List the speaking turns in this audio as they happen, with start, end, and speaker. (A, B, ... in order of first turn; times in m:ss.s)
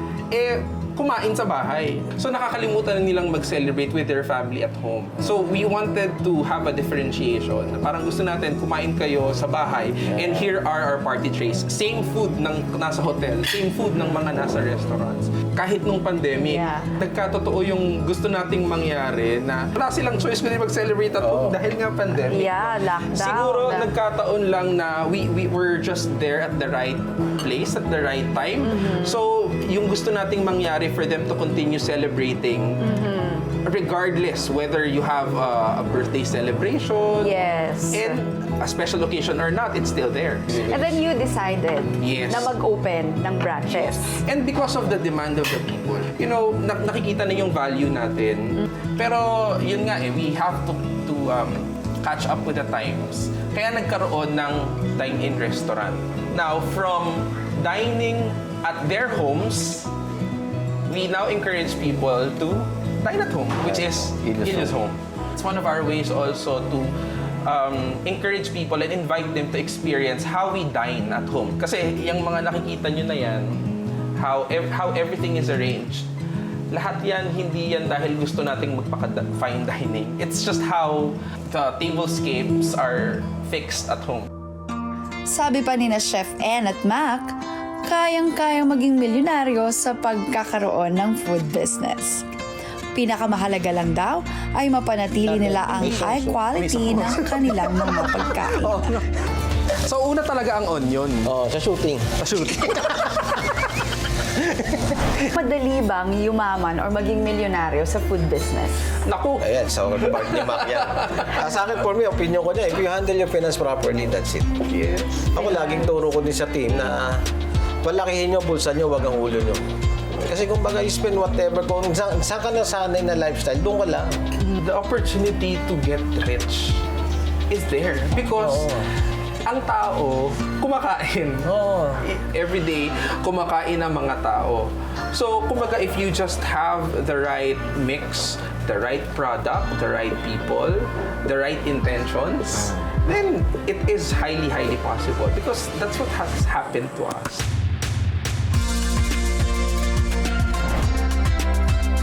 0:00.3-0:32.8 A
0:10.1-0:10.5 B
0:16.4-0:16.9 C
0:21.2-0:21.6 B
0:22.3-0:23.9 C
0:28.6-0:29.2 C
0:32.8-0:33.5 C
0:33.6-0:40.9 A
0:37.2-0:38.2 C
0:40.6-0:44.2 C
0:42.0-0:42.5 A
0:43.8-0:59.9 A
1:00.9-1:06.9 A
1:03.6-1:04.8 B
1:07.4-1:13.6 A
1:14.2-1:16.1 A
1:16.7-1:24.3 A
1:25.3-1:27.3 D
1:27.9-1:32.2 D
1:32.9-1:38.8 D
1:35.2-1:36.4 B
1:35.8-1:39.0 A
1:38.5-1:38.9 B
1:39.8-1:41.3 A
1:41.2-1:43.1 B
1:42.2-1:43.5 A
1:44.4-1:45.2 B
1:45.3-1:48.8 C
1:49.0-1:51.4 A
1:49.4-1:54.6 B
1:54.6-1:55.5 A
1:55.3-1:57.2 B
1:55.5-1:55.9 C
1:57.8-2:04.2 B
2:04.4-2:06.8 A
2:07.5-2:08.8 A
2:08.3-2:08.9 B
2:09.4-2:11.5 A
2:11.4-2:12.0 B
2:12.0-2:27.5 A